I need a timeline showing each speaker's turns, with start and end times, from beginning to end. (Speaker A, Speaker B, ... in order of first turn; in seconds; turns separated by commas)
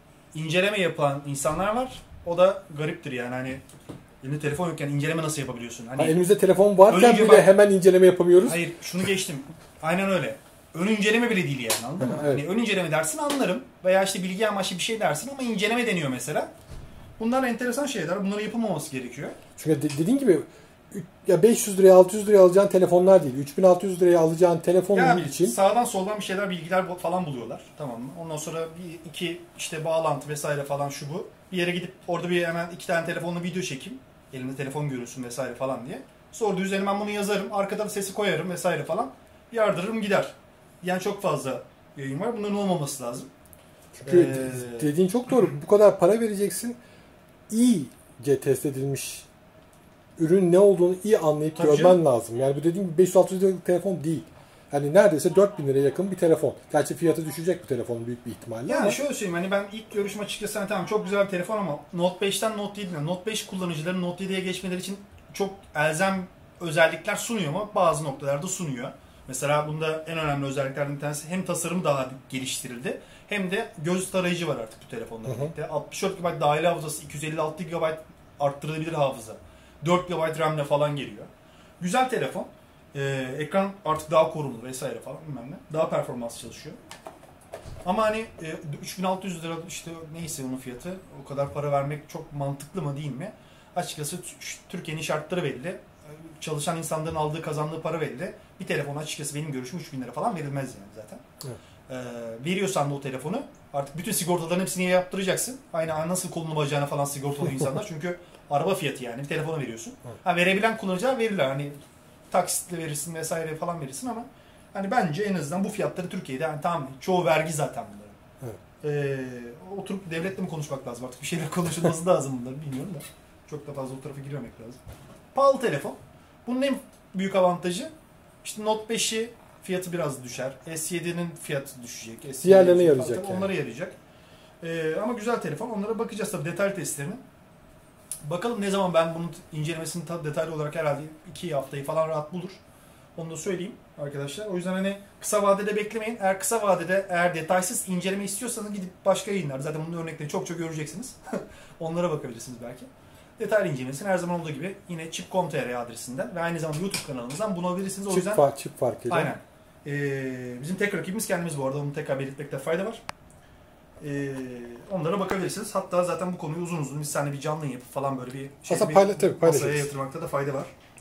Speaker A: 0.3-3.6, Speaker A: 4.2-6.2, Speaker B: 6.0-8.6, Speaker A: 6.8-7.5, Speaker A: 8.4-16.5, Speaker B: 12.0-12.4, Speaker A: 17.2-19.4, Speaker B: 19.6-25.6, Speaker A: 24.9-43.3, Speaker B: 44.0-46.8, Speaker A: 44.0-44.9, Speaker B: 47.5-49.3, Speaker B: 50.2-59.0, Speaker A: 51.5-52.0, Speaker A: 58.6-81.3, Speaker B: 75.2-75.5, Speaker A: 81.8-86.8, Speaker A: 87.8-101.2, Speaker A: 101.9-111.8, Speaker A: 112.3-118.2, Speaker A: 118.8-124.8, Speaker A: 125.3-127.9, Speaker A: 128.4-133.9, Speaker B: 132.4-133.5, Speaker A: 134.6-137.2, Speaker A: 138.2-142.6, Speaker A: 143.2-158.4, Speaker B: 158.1-159.3, Speaker A: 159.1-163.0, Speaker A: 164.0-170.7, Speaker B: 168.7-169.9